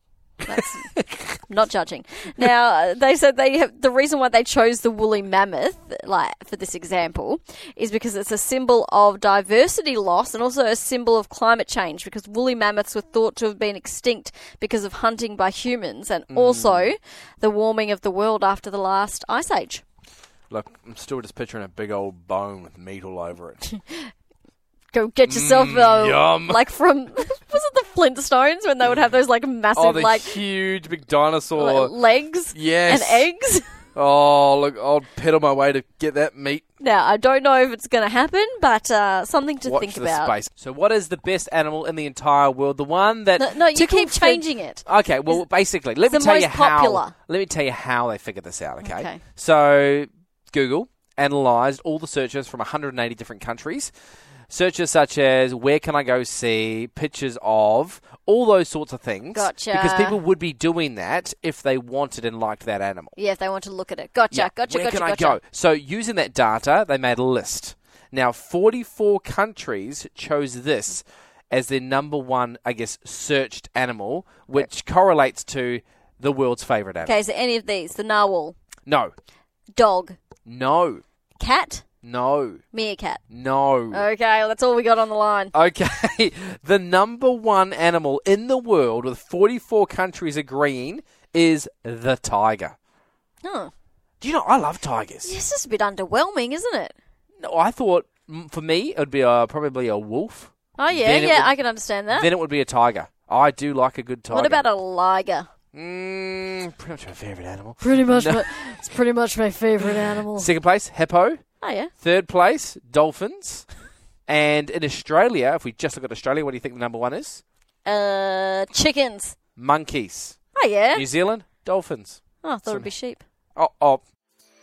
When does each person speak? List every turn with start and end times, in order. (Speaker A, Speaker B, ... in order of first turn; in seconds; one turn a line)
Speaker A: 0.4-0.9
Speaker B: 0.6-1.4
Speaker A: 1.5-19.8
Speaker B: 16.3-16.9
Speaker B: 20.5-23.7
Speaker A: 23.7-24.1
Speaker A: 24.9-30.4
Speaker B: 25.3-26.6
Speaker B: 29.8-31.9
Speaker A: 31.6-33.6
Speaker B: 32.5-33.3
Speaker B: 33.9-36.6
Speaker A: 36.8-40.4
Speaker B: 39.6-53.9
Speaker A: 43.4-45.4
Speaker A: 46.1-47.1
Speaker A: 48.8-49.2
Speaker B: 54.5-63.1
Speaker A: 59.3-60.2
Speaker A: 63.1-65.4
Speaker B: 64.3-77.2
Speaker A: 77.0-78.5
Speaker B: 78.9-79.1
Speaker A: 79.8-80.2
Speaker B: 80.5-81.0
Speaker A: 81.4-81.8
Speaker B: 82.0-82.6
Speaker A: 82.7-83.2
Speaker B: 83.3-84.0
Speaker A: 83.9-85.5
Speaker B: 85.5-92.7
Speaker A: 93.4-93.7
Speaker B: 94.2-95.3
Speaker A: 95.2-96.9
Speaker B: 97.4-101.5
Speaker A: 100.8-102.3
Speaker B: 102.2-104.6
Speaker A: 104.3-105.5
Speaker B: 105.7-108.5
Speaker A: 107.8-110.5
Speaker B: 109.8-111.4
Speaker A: 111.6-111.9
Speaker B: 112.0-113.7
Speaker B: 114.3-117.4
Speaker A: 117.8-119.3
Speaker B: 119.5-120.3
Speaker A: 120.5-121.0
Speaker B: 120.9-122.9
Speaker A: 122.4-123.2
Speaker B: 123.5-124.0